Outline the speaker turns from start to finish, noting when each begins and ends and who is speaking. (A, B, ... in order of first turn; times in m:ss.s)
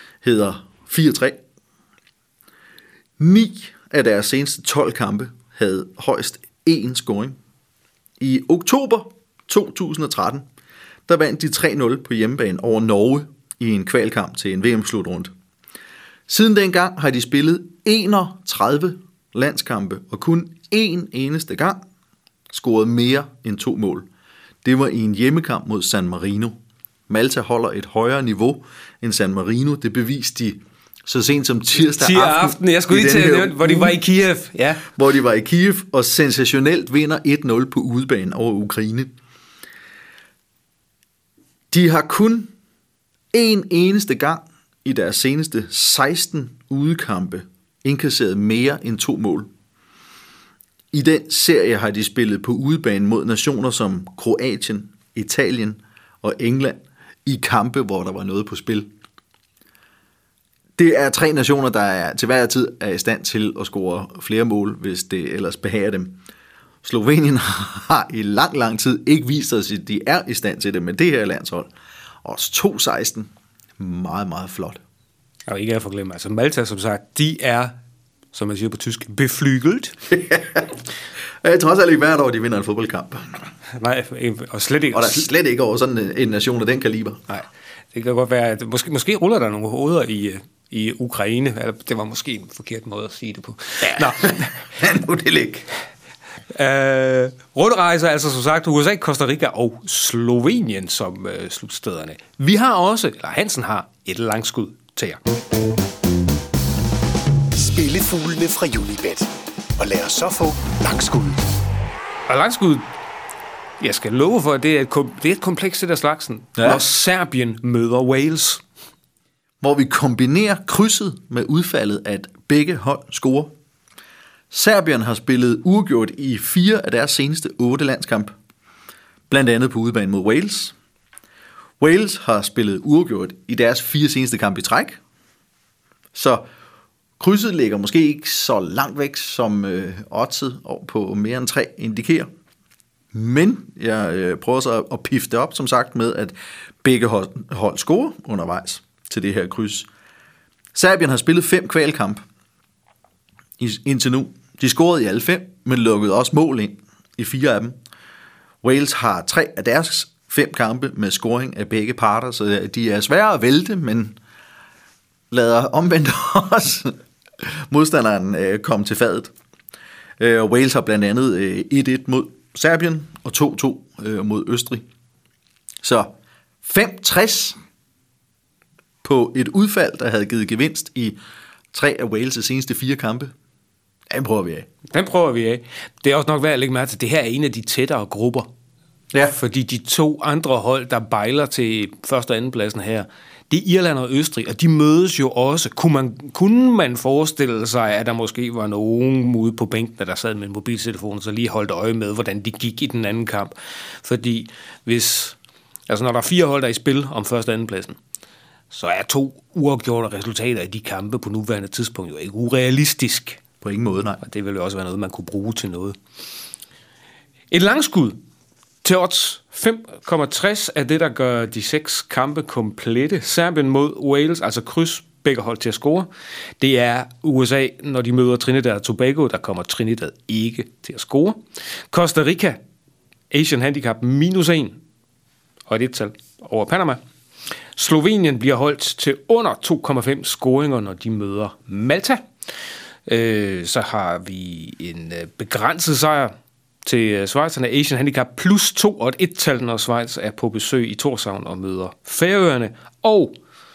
0:00.2-0:01.4 A
0:03.2-0:07.4 A
0:08.2-0:10.4 A
0:11.1-0:15.3 A
0:16.3-0:21.8 A
0:22.5-0:24.1 A
0:24.6-0:26.6 A
0:27.1-0:34.0 A
0:31.8-0:34.9 B
0:34.9-0:39.1 A
0:41.7-0:42.5 A
0:43.3-0:49.5 A
0:50.9-0:58.9 A
1:00.8-1:06.2 A
1:06.8-1:11.7 A
1:12.2-1:13.3 A
1:13.8-1:14.8 A
1:15.5-1:17.8 B
1:18.3-1:20.0 B
1:20.1-1:20.8 A
1:21.4-1:23.4 A
1:23.7-1:25.3 B
1:24.9-1:27.2 A
1:27.3-1:34.6 B
1:34.2-1:35.7 A
1:36.5-1:45.2 B
1:47.5-1:51.4 C
1:52.3-1:52.9 B
1:53.8-1:58.6 B
1:56.6-1:56.8 A
1:59.6-2:03.5 A
2:04.5-2:08.3 A
2:09.3-2:10.7 A
2:11.8-2:15.0 A
2:16.1-2:16.4 A
2:17.2-2:22.3 A
2:23.1-2:29.9 A
2:30.7-2:32.2 A
2:33.6-2:37.8 A
2:38.6-2:44.2 A
2:45.3-2:49.3 A
2:50.2-2:54.8 A
2:55.8-2:56.1 A
2:56.6-2:57.6 A
2:59.0-3:01.2 A
3:01.7-3:03.3 A
3:04.1-3:04.7 A
3:04.9-3:08.5 B
3:09.3-3:25.4 B
3:25.9-3:28.0 B
3:28.7-3:33.4 B
3:33.6-3:34.2 A
3:34.2-3:36.0 B
3:37.5-3:38.2 B
3:38.8-3:46.1 B
3:46.6-3:52.6 B
3:53.3-3:54.8 B
3:55.7-3:57.0 B
3:57.8-4:02.2 B
4:03.1-4:06.3 B
4:06.8-4:13.3 B